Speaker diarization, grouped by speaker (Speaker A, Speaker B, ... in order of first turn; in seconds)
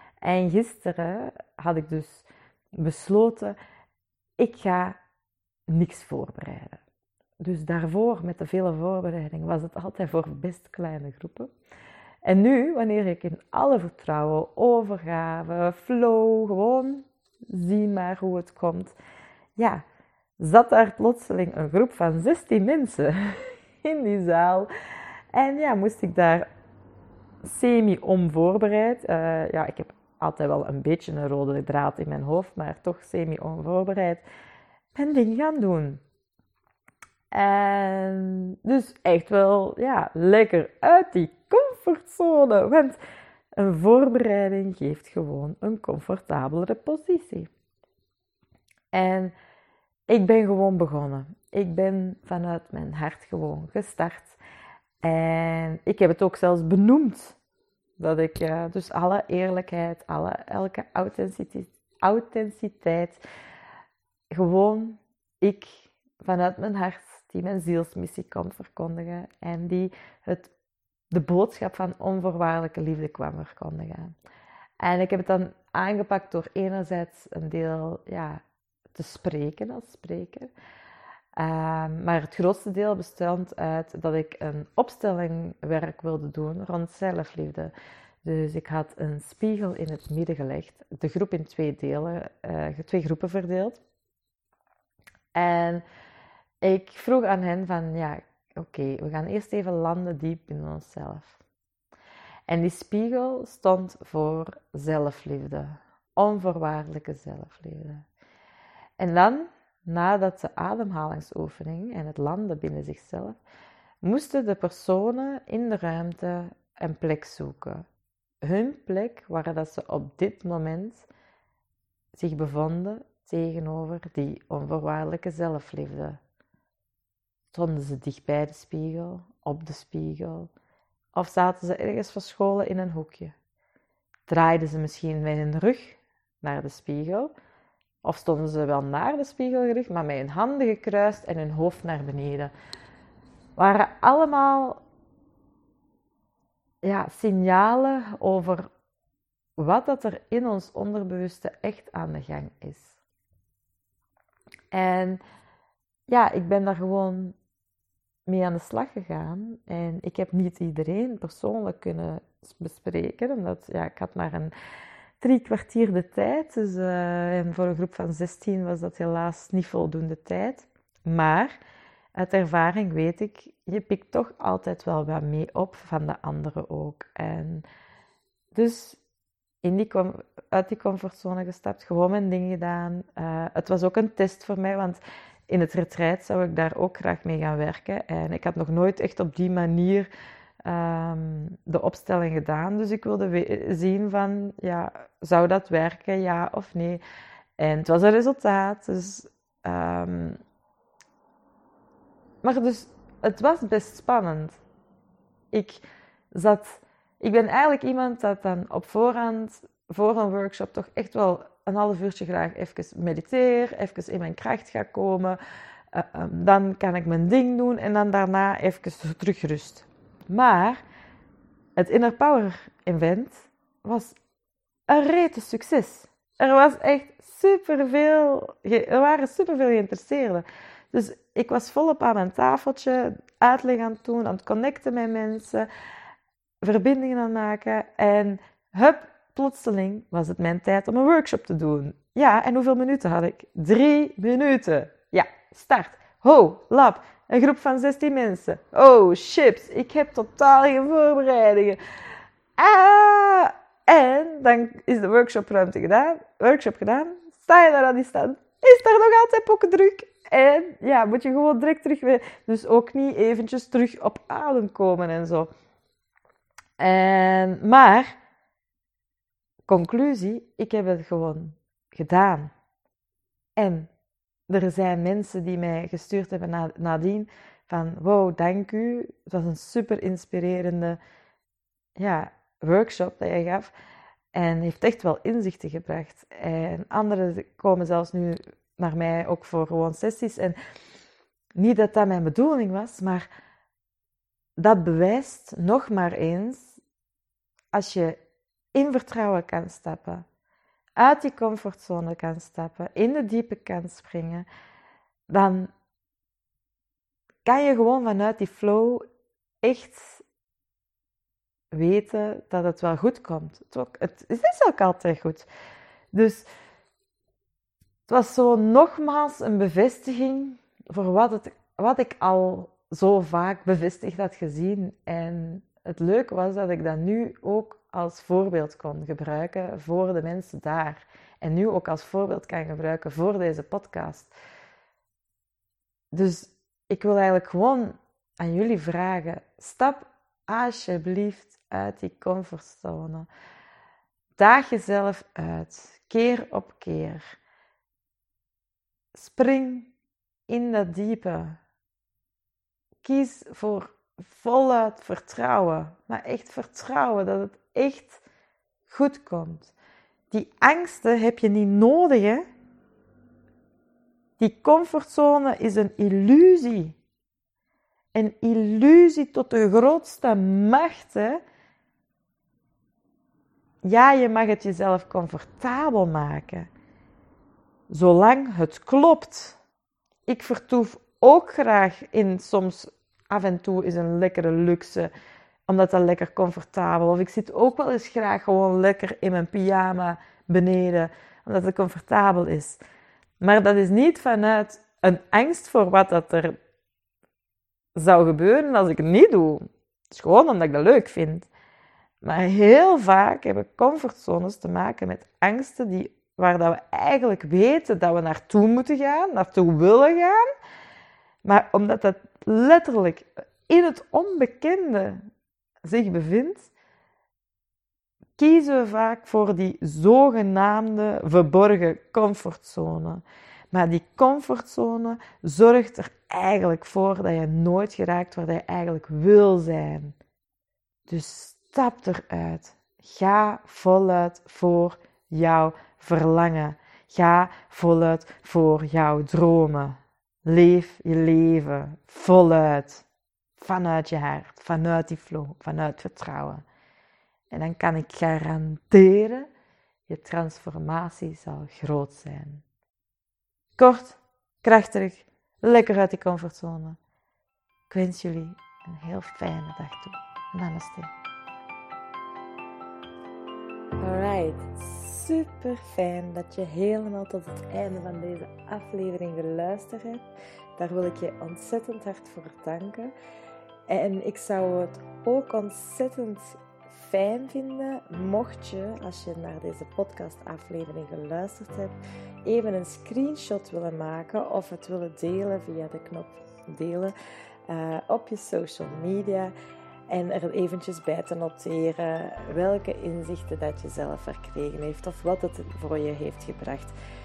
Speaker A: 0.2-3.6, 4.4-5.0, 5.7-6.8, 7.4-11.5, 12.2-18.9, 19.6-19.8, 20.4-24.7, 25.3-26.5, 27.4-34.2, 35.0-36.0, 37.3-43.0, 43.6-47.5, 48.9-49.3, 50.1-54.4, 55.0-57.4, 58.0-63.2, 64.3-70.5, 71.1-74.2, 74.8-78.4, 78.9-80.5, 81.4-87.7, 88.2-93.8, 95.3-95.8, 96.6-101.4, 102.5-108.1, 109.0-113.4, 114.0-117.8, 118.4-121.1, 122.1-126.2, 127.5-130.5, 131.2-133.3, 134.3-137.3, 138.0-142.5, 143.6-144.8, 146.8-148.7, 149.6-153.0, 154.7-155.2, 156.1-157.4, 158.3-164.5, 165.2-171.6, 172.2-177.7, 178.5-179.0, 179.6-190.1, 190.7-197.0, 197.6-200.4, 202.4-204.6, 205.5-215.4, 215.9-220.8, 221.8-224.2, 224.9-235.7, 236.6-251.8, 252.6-265.5, 266.8-268.1, 269.7-272.5, 273.6-273.9, 274.5-281.0, 282.0-283.7, 284.3-290.6, 291.6-293.3, 294.6-296.8, 297.7-298.2, 298.7-300.2, 301.0-304.5, 305.3-305.7, 307.4-309.1, 309.6-310.2, 311.7-315.5, 316.1-316.5, 318.1-334.3, 336.1-343.3, 344.4-347.4, 349.1-349.9, 350.5-351.6, 353.0-358.2, 358.9-359.7, 360.3-362.4, 364.4-367.0, 368.1-371.4, 373.8-376.7, 377.9-379.6, 380.3-385.1, 385.7-392.8, 393.4-396.6, 397.9-401.5, 402.2-410.5, 411.4-415.2, 415.8-416.7, 418.4-430.2, 431.1-443.1, 443.6-446.6, 447.5-449.5, 450.1-452.6, 453.8-457.0, 457.9-461.1, 464.0-470.2, 470.8-473.1, 473.9-487.1, 487.7-489.5, 490.1-496.9